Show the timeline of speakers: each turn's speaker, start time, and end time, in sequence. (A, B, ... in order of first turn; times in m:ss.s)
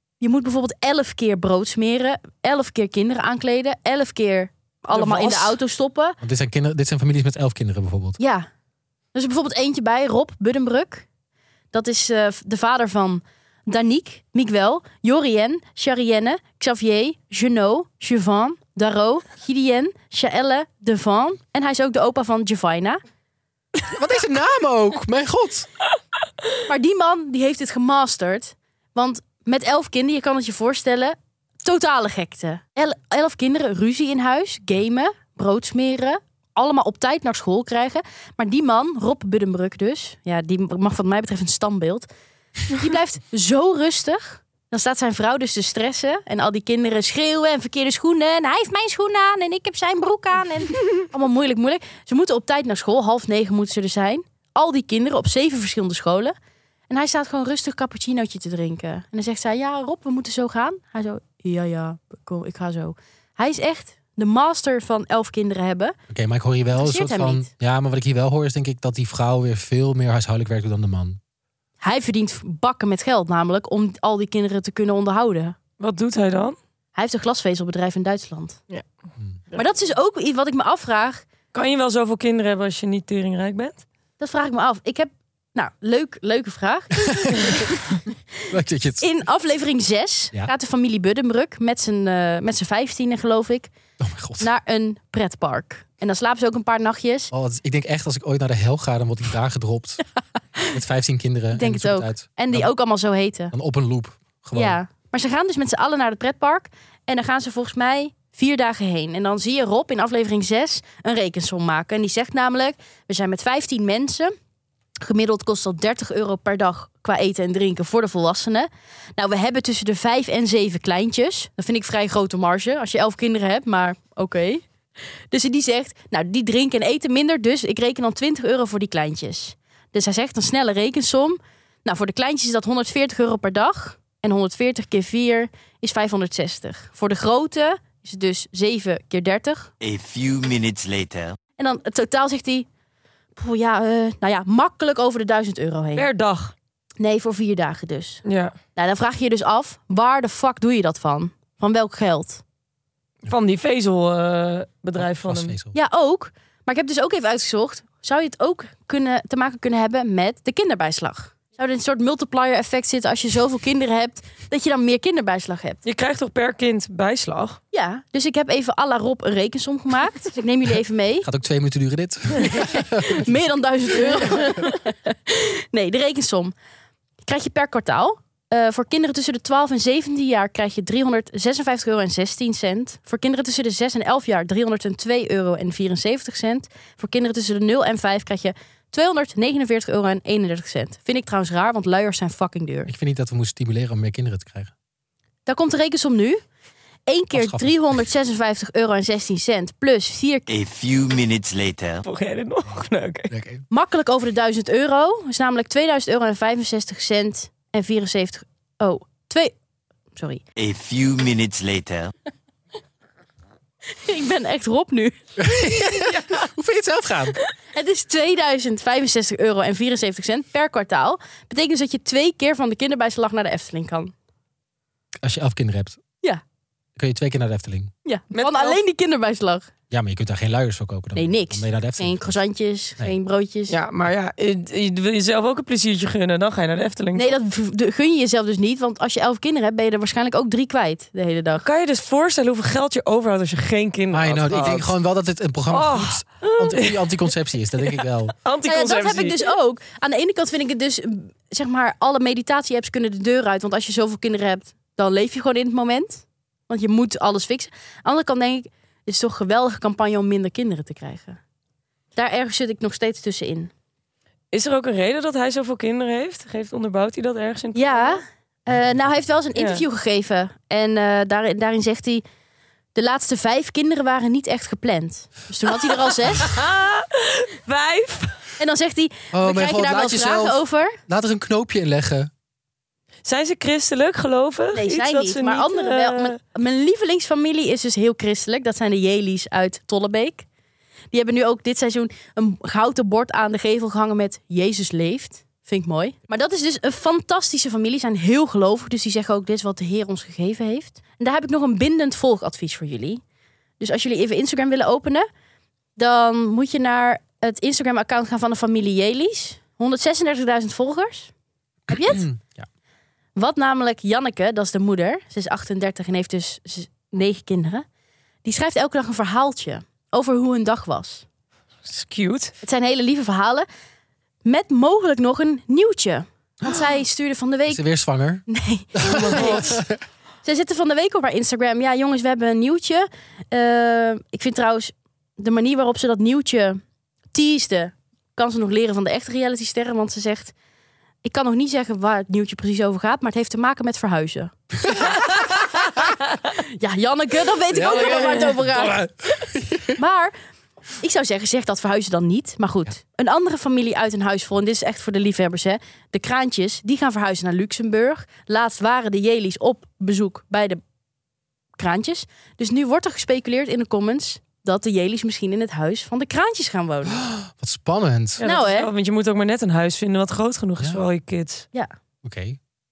0:00.2-0:06.2 A
0:04.9-0:05.5 B
0:06.2-0:08.2 C
0:08.2-0:08.5 A
0:09.1-0:11.0 A
0:11.7-0:23.0 A
0:23.9-0:25.7 C
0:26.7-0:42.1 A
0:42.7-0:56.4 A
0:56.9-1:06.0 A
1:06.1-1:11.2 C
1:06.8-1:07.5 A
1:11.8-1:15.6 A
1:15.8-1:16.6 B
1:17.0-1:18.6 A
1:19.6-1:21.2 A
1:21.5-1:23.8 B
1:24.2-1:27.9 A
1:27.1-1:27.6 C
1:28.5-1:29.1 C
1:29.0-1:33.7 A
1:34.0-1:34.5 C
1:34.4-1:37.3 A
1:37.3-1:40.0 C
1:40.7-1:42.7 C
1:41.6-1:43.5 A
1:43.5-1:44.8 C
1:44.5-1:54.4 A
1:55.0-2:04.6 A
2:05.3-2:19.7 A
2:19.8-2:21.4 D
2:21.6-2:22.7 A
2:23.4-2:26.1 A
2:26.0-2:26.5 B
2:27.0-2:28.2 A
2:28.2-2:28.6 B
2:28.8-2:32.4 A
2:33.3-2:35.6 B
2:35.0-2:35.8 C
2:35.7-2:45.8 A
2:45.8-2:47.6 B
2:47.7-2:51.3 A
2:51.2-2:53.2 C
2:52.4-2:56.5 A
2:57.2-3:12.9 A
3:12.9-3:14.7 C
3:15.5-3:16.4 A
3:17.1-3:20.5 A
3:17.3-3:17.7 C
3:20.5-3:22.0 D
3:22.0-3:23.3 B
3:23.3-3:23.6 C
3:23.7-3:29.5 A
3:30.2-3:30.4 A
3:30.6-3:32.1 D
3:34.0-3:35.2 A
3:35.4-3:37.4 C
3:37.7-3:44.1 A
3:45.2-3:46.0 C
3:47.0-3:47.9 C
3:48.0-3:49.7 A
3:48.3-3:48.8 B
3:49.9-3:52.4 C
3:51.2-3:53.8 A
3:53.7-3:57.4 B
3:57.2-4:01.6 A
4:01.6-4:04.9 B
4:04.1-4:08.3 C
4:05.7-4:07.1 B
4:07.8-4:09.5 B
4:08.7-4:21.4 A
4:22.2-4:23.7 A
4:24.5-4:28.2 B
4:27.8-4:32.2 A
4:29.6-4:29.8 B
4:33.0-4:36.6 A
4:35.8-4:38.4 B
4:38.6-4:41.0 A
4:39.3-4:42.3 C
4:43.2-4:46.4 B
4:44.7-4:50.4 A
4:51.1-5:03.2 A
5:03.8-5:05.3 A
5:06.0-5:11.3 A
5:11.9-5:12.3 A
5:11.9-5:12.7 C
5:13.4-5:17.8 A
5:18.4-5:21.2 A
5:21.9-5:22.5 B
5:22.6-5:23.7 A
5:24.4-5:27.8 A
5:27.7-5:30.0 C
5:28.5-5:29.8 A
5:29.1-5:29.8 B
5:30.4-5:36.8 A
5:37.3-5:40.5 A
5:41.2-5:45.5 A
5:46.6-5:49.0 A
5:47.7-5:50.0 C
5:47.9-5:48.4 B
5:50.0-5:50.4 A
5:51.0-6:00.8 A
6:01.8-6:07.2 A
6:07.2-6:08.4 C
6:08.4-6:11.7 B
6:08.4-6:08.9 A
6:12.2-6:12.6 C